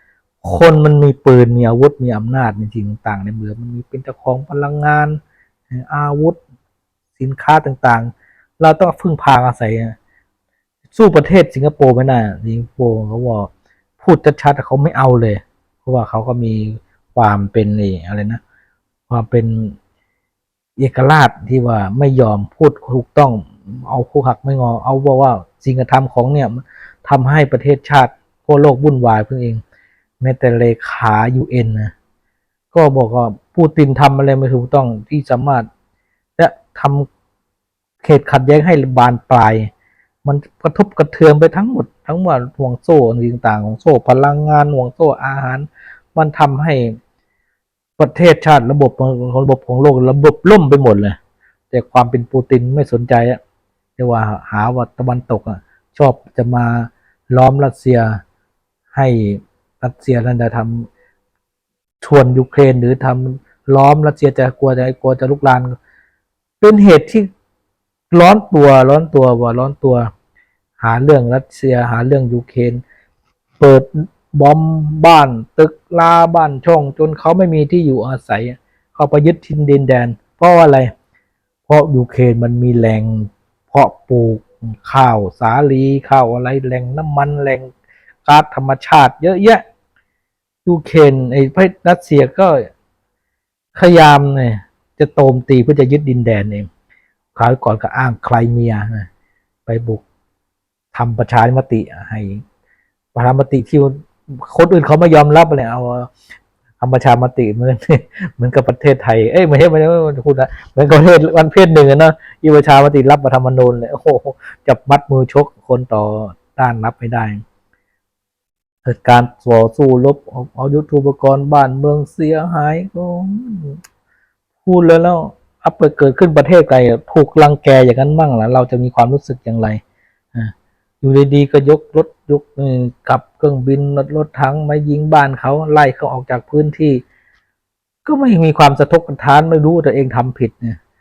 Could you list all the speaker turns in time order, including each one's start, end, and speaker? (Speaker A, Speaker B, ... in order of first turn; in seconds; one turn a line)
Speaker A: 0.4-5.2
Speaker A: 5.7-6.4
Speaker A: 7.2-9.9
Speaker A: 10.9-18.4
Speaker A: 19.1-19.8
Speaker A: 20.8-29.6
Speaker A: 30.2-31.9
Speaker A: 32.7-35.7
Speaker A: 36.4-37.1
Speaker A: 38.0-39.7
Speaker A: 40.2-47.0
Speaker A: 48.0-51.2
Speaker A: 51.7-53.4
Speaker A: 54.0-58.2
Speaker A: 58.9-60.9
Speaker A: 62.0-65.7
Speaker A: 66.6-67.3
Speaker A: 68.1-70.1
Speaker A: 70.8-72.8
Speaker A: 73.6-80.9
Speaker A: 81.7-87.7
Speaker A: 88.2-89.6
Speaker A: 90.6-92.7
Speaker A: 93.7-96.7
Speaker A: 97.3-99.1
Speaker A: 99.7-100.0
Speaker A: 100.9-102.4
Speaker A: 103.1-106.1
Speaker A: 106.8-117.4
Speaker A: 118.8-123.8
Speaker A: 124.6-129.8
Speaker A: 130.3-137.0
Speaker A: 138.0-140.8